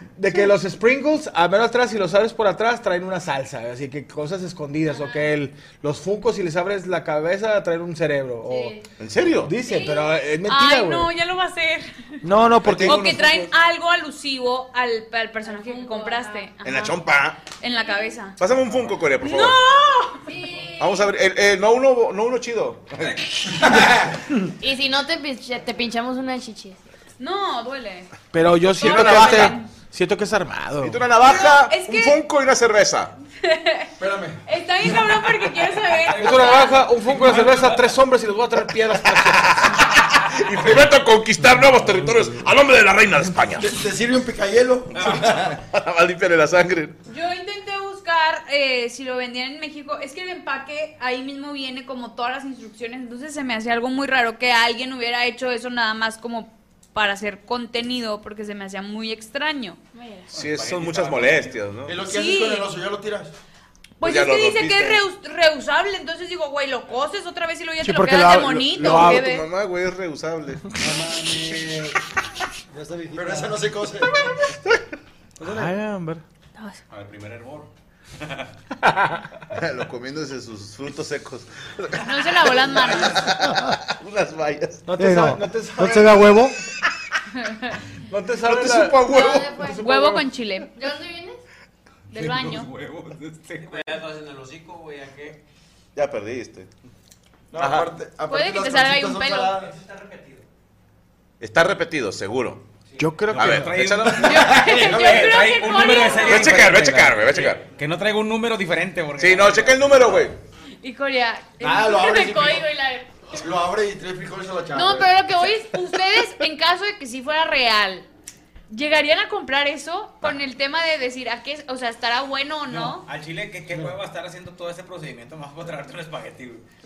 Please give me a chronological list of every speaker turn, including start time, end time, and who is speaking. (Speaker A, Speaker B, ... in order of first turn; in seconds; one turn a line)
Speaker A: 0.2-8.8
Speaker B: 8.4-8.8
Speaker C: 9.0-9.6
Speaker A: 9.4-11.1
Speaker D: 9.7-12.2
Speaker A: 12.2-13.1
Speaker C: 12.6-13.4
Speaker D: 12.8-18.4
Speaker B: 15.4-16.5
Speaker C: 16.6-17.4
Speaker C: 18.4-19.6
Speaker D: 19.2-20.3
Speaker B: 20.2-21.1
Speaker C: 20.8-23.9
Speaker B: 24.6-26.8
Speaker D: 27.2-29.7
Speaker A: 28.3-31.0
Speaker C: 28.8-29.6
Speaker C: 30.8-33.1
Speaker D: 31.1-32.2
Speaker D: 33.4-33.9
Speaker E: 34.0-34.4
Speaker D: 34.5-36.9
Speaker F: 36.0-38.0
Speaker A: 36.1-39.8
Speaker C: 39.2-43.7
Speaker E: 43.6-45.4
Speaker F: 44.9-45.3
Speaker C: 45.0-47.0
Speaker D: 47.1-59.8
Speaker B: 59.9-60.3
Speaker F: 60.3-61.6
Speaker C: 60.3-62.0
Speaker E: 61.9-63.3
Speaker D: 62.0-62.7
Speaker D: 64.0-69.5
Speaker C: 64.0-65.0
Speaker A: 67.8-69.2
Speaker C: 68.8-70.7
Speaker A: 70.8-71.9
Speaker G: 72.7-73.8
Speaker E: 73.1-74.3
Speaker A: 75.4-76.2
Speaker F: 76.9-78.5
Speaker C: 79.5-84.9
Speaker D: 82.0-83.4
Speaker A: 84.9-86.5
Speaker G: 84.9-86.6
Speaker D: 87.5-87.8
Speaker A: 88.1-90.3
Speaker C: 88.4-89.7
Speaker B: 89.0-89.8
Speaker D: 89.8-90.7
Speaker B: 90.7-91.4
Speaker D: 92.1-92.7
Speaker F: 92.1-94.0
Speaker H: 93.6-95.4
Speaker C: 96.0-96.7
Speaker E: 97.5-99.7
Speaker C: 97.5-97.9
Speaker D: 98.2-99.6
Speaker H: 99.7-100.4
Speaker C: 101.4-102.6
Speaker A: 103.0-104.1
Speaker F: 103.3-110.0
Speaker C: 103.3-104.4
Speaker D: 104.2-106.7
Speaker E: 104.9-105.2
Speaker C: 106.2-107.6
Speaker C: 109.2-110.4
Speaker D: 110.8-113.0
Speaker E: 111.6-112.7
Speaker B: 112.6-113.0
Speaker E: 113.4-115.3
Speaker D: 114.7-118.1
Speaker D: 118.7-123.1
Speaker F: 122.7-126.6